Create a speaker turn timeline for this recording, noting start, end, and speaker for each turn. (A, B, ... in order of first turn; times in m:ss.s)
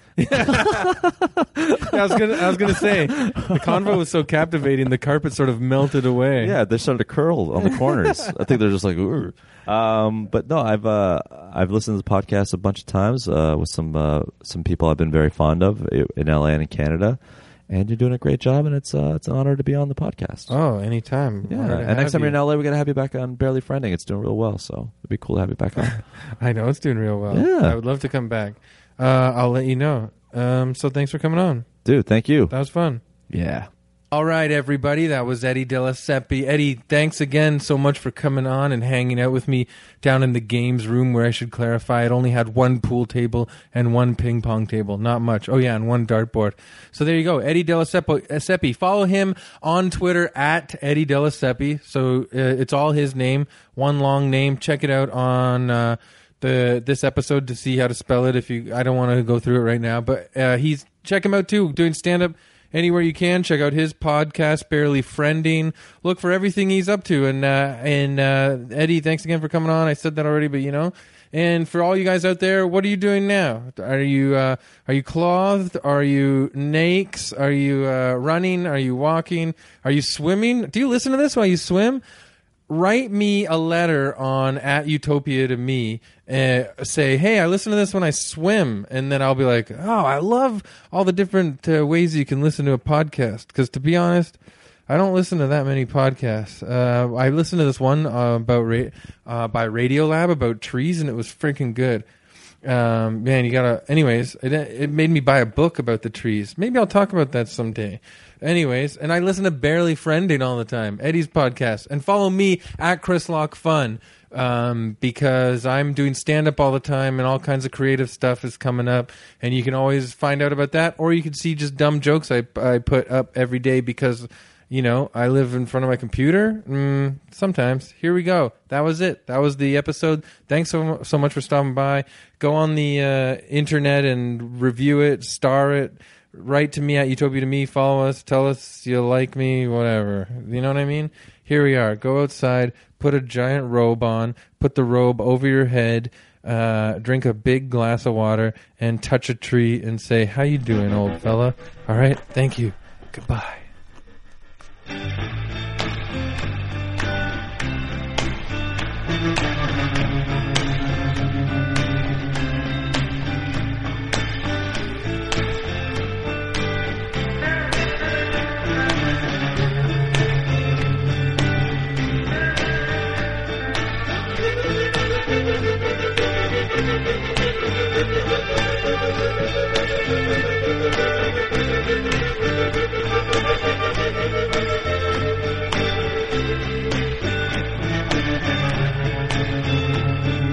0:00.2-0:01.0 A
0:00.3-0:04.0 B
0:01.6-0:06.6 A
0:06.4-0:20.5 B
0:07.7-0:08.3 A
0:20.5-0:22.4 A
0:21.5-0:26.0 B
0:25.8-0:31.6 A
0:27.3-0:27.8 B
0:31.8-0:32.5 B
0:32.5-0:33.0 A
0:33.3-0:33.7 B
0:34.1-1:22.0 A
1:22.7-1:34.4 A
1:34.9-1:42.0 A
1:42.6-2:33.6 A